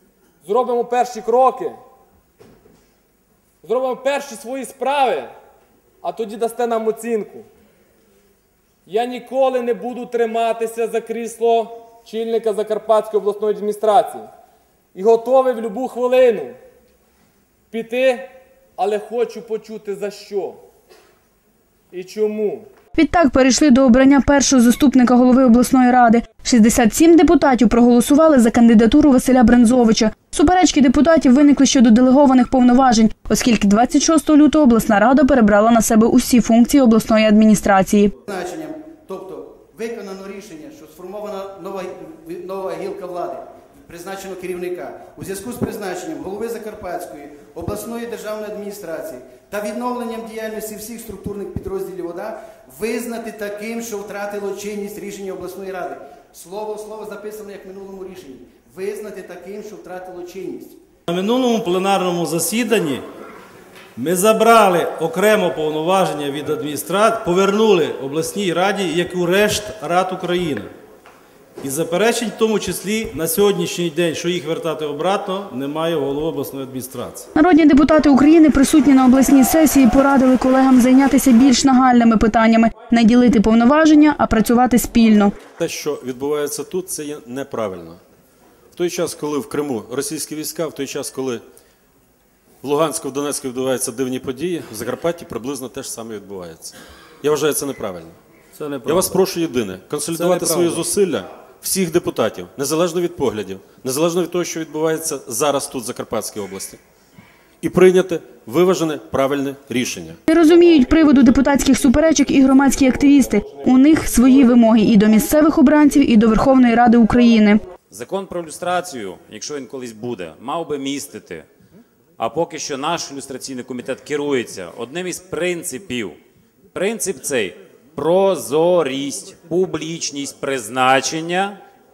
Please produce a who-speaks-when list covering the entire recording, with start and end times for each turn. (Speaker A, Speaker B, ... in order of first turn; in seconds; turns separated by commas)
Speaker A: 0.4-1.8, Speaker A: 3.6-5.3, Speaker A: 6.0-7.5, Speaker A: 8.8-14.3, Speaker A: 14.9-16.6, Speaker A: 17.7-20.6, Speaker A: 21.9-22.7, Speaker B: 22.9-38.1, Speaker C: 38.2-60.8, Speaker D: 61.1-63.0, Speaker D: 64.0-70.7, Speaker D: 71.6-77.2, Speaker B: 77.3-85.3, Speaker E: 85.6-88.0, Speaker E: 88.7-91.4, Speaker E: 92.6-98.2, Speaker E: 98.8-106.8, Speaker E: 107.6-110.2, Speaker B: 110.3-117.6, Speaker F: 117.9-121.5, Speaker F: 122.2-126.2, Speaker F: 126.7-131.6